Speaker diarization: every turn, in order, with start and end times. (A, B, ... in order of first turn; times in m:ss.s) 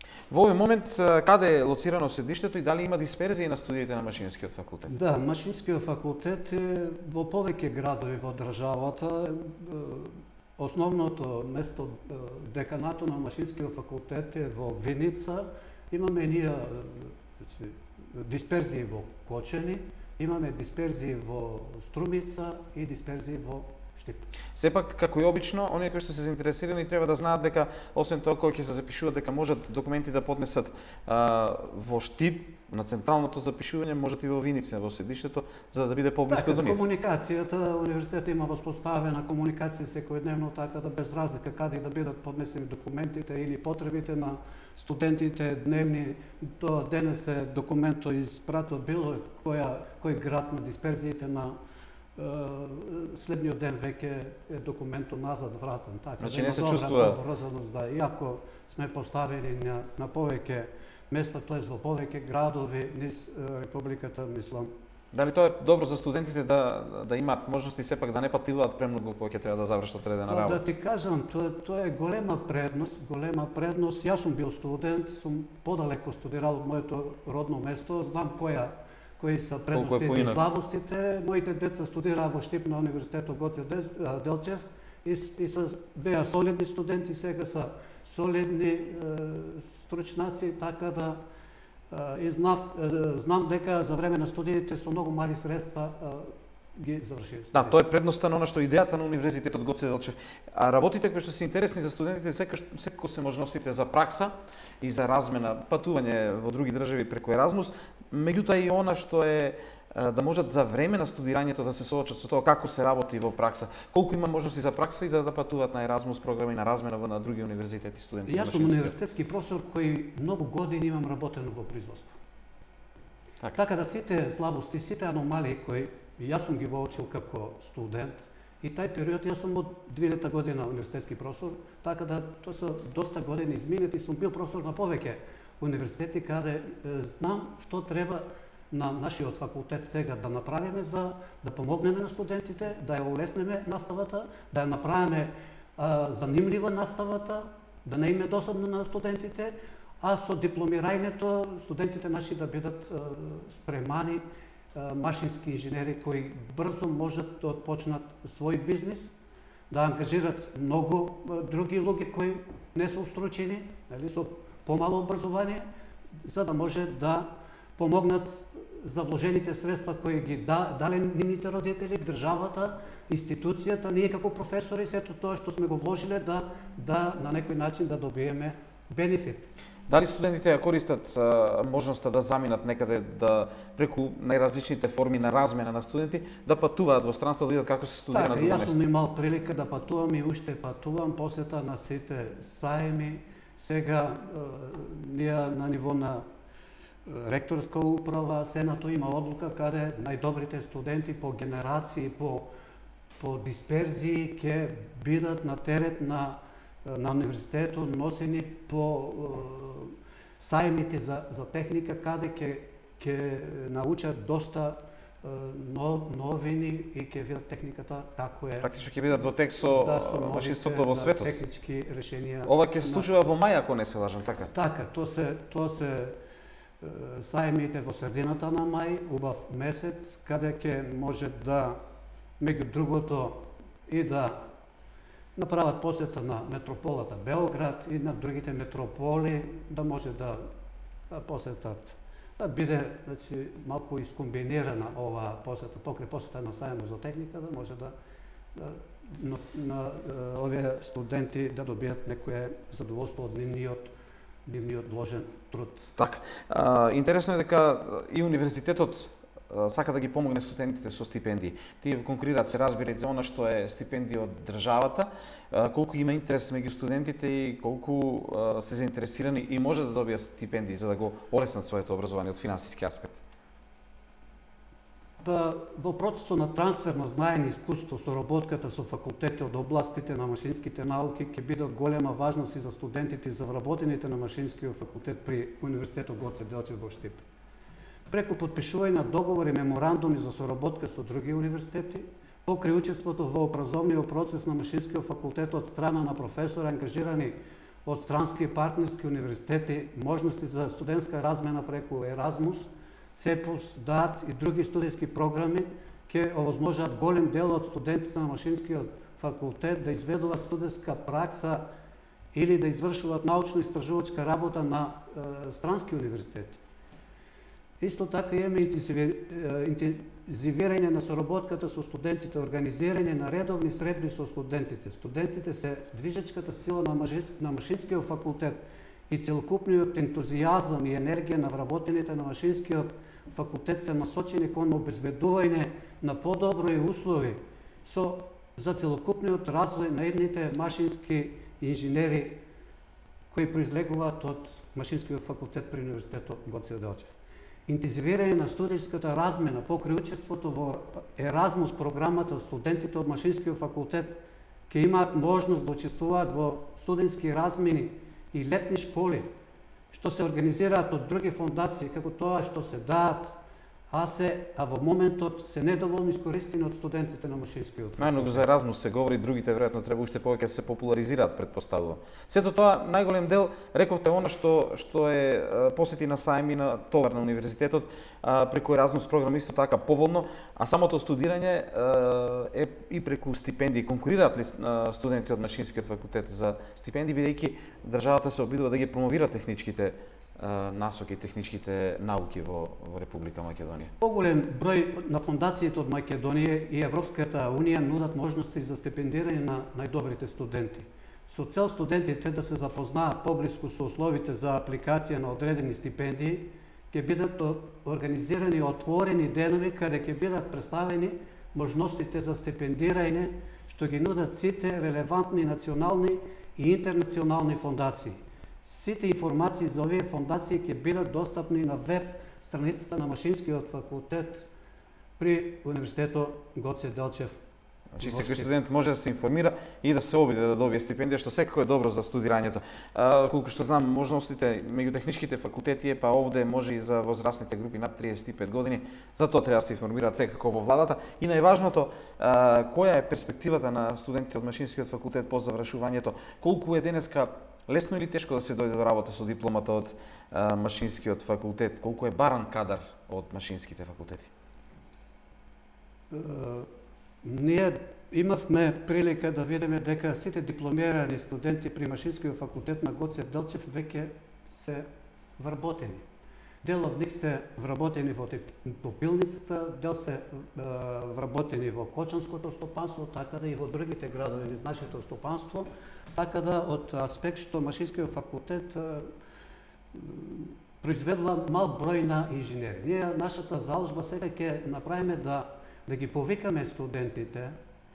0:00.3-0:04.9 A
0:04.9-0:24.3 B
0:24.6-0:36.8 A
0:36.3-0:51.6 B
0:52.2-1:04.7 B
0:56.2-0:57.2 A
1:05.1-1:10.6 A
1:10.3-1:31.2 B
1:19.7-1:20.4 A
1:31.9-1:37.8 B
1:37.5-1:58.9 A
1:58.3-2:02.2 B
2:03.5-2:34.2 B
2:34.8-2:39.1 B
2:39.7-2:45.6 B
2:46.2-2:59.5 B
2:59.9-3:08.8 A
3:08.1-3:16.2 B
3:17.1-3:22.5 B
3:23.2-3:38.7 B
3:38.6-3:41.4 A
3:39.6-3:43.1 B
3:42.4-3:44.5 A
3:44.5-3:46.2 B
3:46.8-3:51.8 B
3:52.4-3:54.4 B
3:55.4-4:00.4 B
4:01.1-4:07.9 B
4:08.6-4:13.9 B
4:14.5-4:15.9 B
4:16.0-4:33.2 A
4:35.2-4:47.2 B
4:48.1-5:11.6 B
5:12.3-5:16.6 B
5:17.8-5:28.6 B
5:29.1-5:42.4 B
5:43.3-5:47.1 B
5:47.7-5:59.3 B
5:59.9-6:08.4 B
6:08.0-6:33.9 A
6:34.0-7:04.5 B
7:05.2-7:07.4 B
7:08.0-7:34.3 A
7:08.0-7:08.5 B
7:36.1-7:36.7 B
7:37.2-7:44.9 B
7:45.4-7:46.0 B
7:46.6-7:59.1 B
7:59.9-8:07.6 B